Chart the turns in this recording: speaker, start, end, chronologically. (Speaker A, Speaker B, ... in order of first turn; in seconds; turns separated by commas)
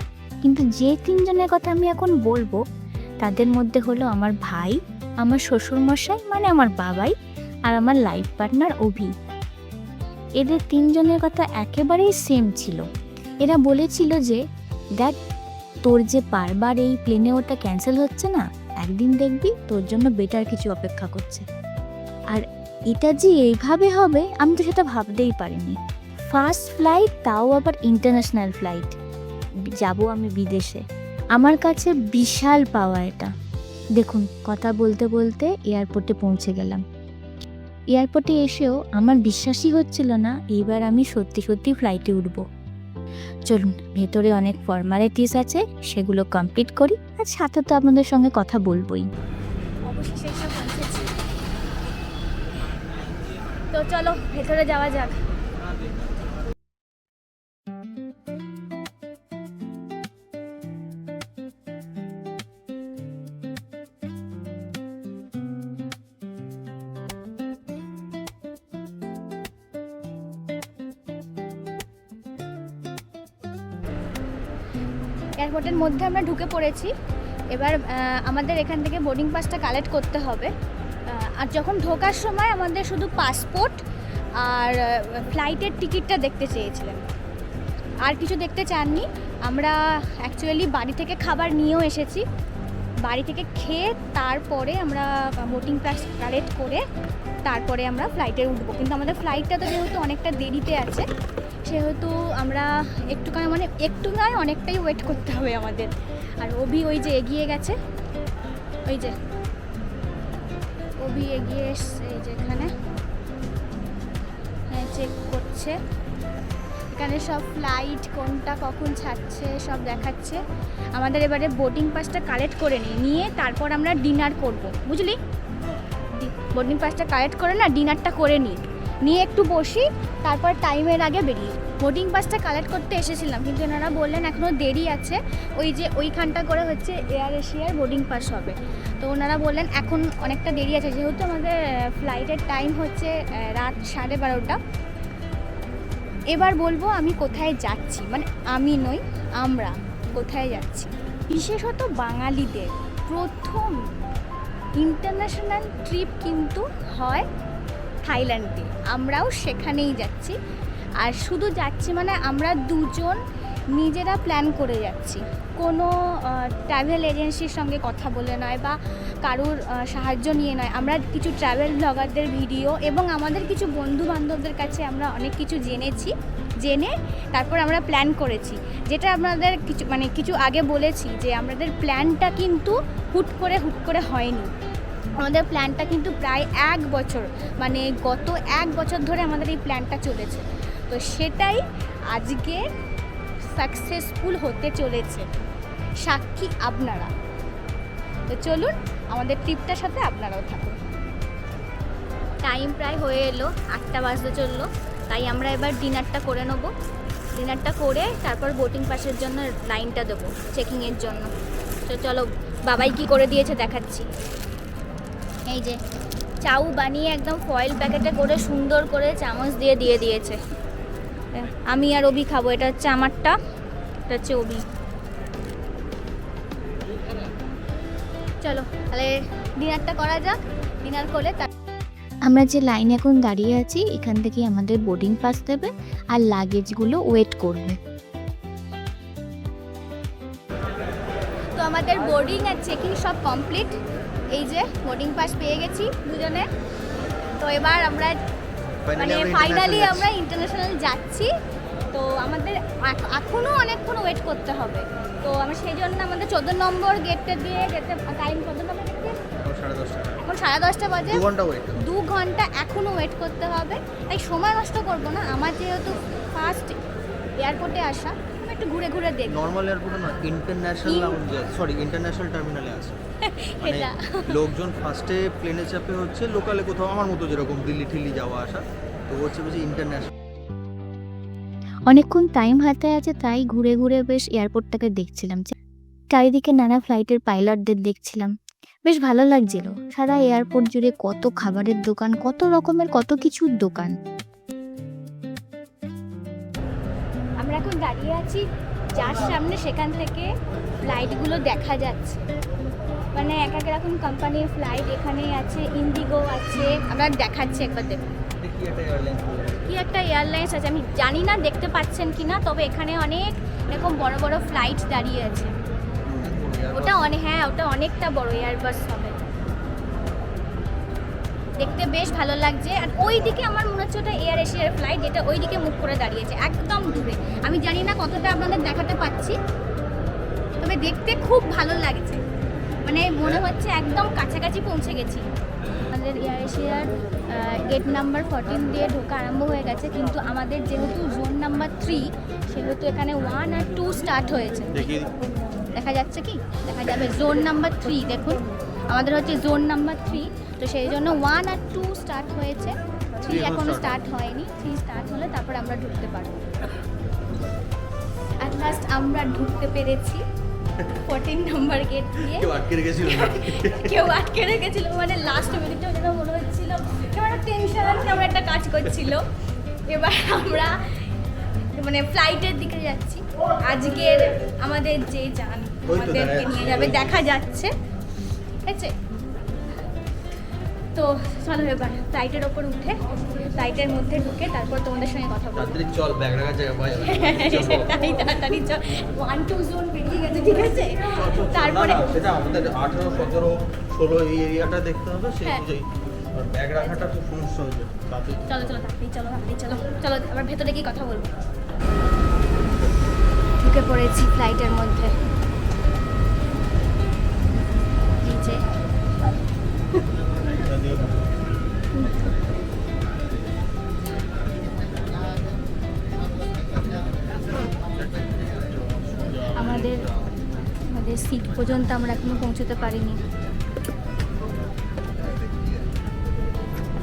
Speaker A: 0.4-2.6, Speaker A: 3.2-7.1, Speaker A: 7.7-9.1, Speaker A: 10.4-12.8, Speaker A: 13.4-14.4, Speaker A: 15.8-21.4, Speaker A: 22.3-25.8, Speaker A: 26.3-28.9, Speaker A: 29.7-30.8, Speaker A: 31.3-33.3, Speaker A: 34.0-36.8, Speaker A: 37.9-42.4, Speaker A: 43.5-49.1, Speaker B: 49.9-51.1, Speaker B: 53.7-55.1, Speaker B: 75.4-76.9, Speaker B: 77.5-80.5, Speaker B: 81.1-83.8, Speaker B: 84.4-87.0, Speaker B: 88.0-92.2, Speaker B: 93.0-96.8, Speaker B: 97.5-101.1, Speaker B: 101.7-107.8, Speaker B: 108.8-109.1, Speaker B: 111.0-112.7, Speaker B: 114.7-115.8, Speaker B: 116.9-120.4, Speaker B: 120.9-125.2, Speaker B: 126.1-144.6, Speaker B: 146.3-153.8, Speaker B: 154.8-157.2, Speaker B: 158.0-160.4, Speaker B: 161.0-163.2, Speaker B: 163.7-184.5, Speaker B: 185.2-192.7, Speaker B: 193.5-195.3, Speaker B: 196.0-197.1, Speaker B: 198.3-200.8, Speaker B: 202.4-206.7, Speaker B: 207.3-211.3, Speaker B: 211.8-214.1, Speaker B: 215.5-215.8, Speaker B: 216.4-220.4, Speaker B: 221.3-223.3, Speaker B: 224.1-224.6, Speaker B: 228.4-231.5, Speaker A: 232.2-237.8, Speaker B: 241.6-243.8, Speaker B: 244.3-246.5, Speaker B: 247.4-248.2, Speaker C: 248.8-250.1, Speaker B: 249.0-251.3, Speaker B: 251.9-259.2, Speaker C: 259.4-260.2, Speaker B: 260.2-261.2, Speaker C: 261.0-261.8, Speaker B: 261.8-266.7, Speaker B: 267.4-269.4, Speaker C: 269.3-273.0, Speaker B: 270.8-271.2, Speaker B: 273.2-274.4, Speaker C: 273.6-280.1, Speaker A: 281.9-285.5, Speaker A: 286.1-288.3, Speaker A: 288.9-293.9, Speaker B: 297.4-300.3, Speaker B: 300.8-302.2, Speaker B: 303.1-308.0, Speaker C: 308.4-309.7, Speaker B: 309.7-315.5, Speaker C: 316.0-317.1, Speaker B: 316.7-319.2, Speaker B: 321.6-329.4, Speaker B: 330.6-332.2, Speaker B: 332.8-335.2, Speaker B: 335.9-344.9, Speaker C: 344.7-345.1, Speaker B: 345.7-356.6, Speaker C: 353.2-354.0, Speaker B: 358.4-360.2, Speaker B: 361.1-369.3, Speaker C: 362.2-364.1, Speaker B: 369.9-371.0, Speaker B: 371.7-377.7, Speaker C: 375.9-377.2, Speaker B: 378.6-378.9, Speaker B: 380.9-385.7, Speaker C: 385.6-388.0, Speaker B: 387.0-392.1, Speaker C: 391.1-398.7, Speaker B: 398.5-401.4, Speaker B: 403.6-405.1, Speaker B: 408.2-408.6, Speaker C: 410.6-411.1, Speaker B: 411.9-412.3, Speaker C: 418.0-420.4, Speaker B: 419.6-420.0, Speaker B: 420.9-423.2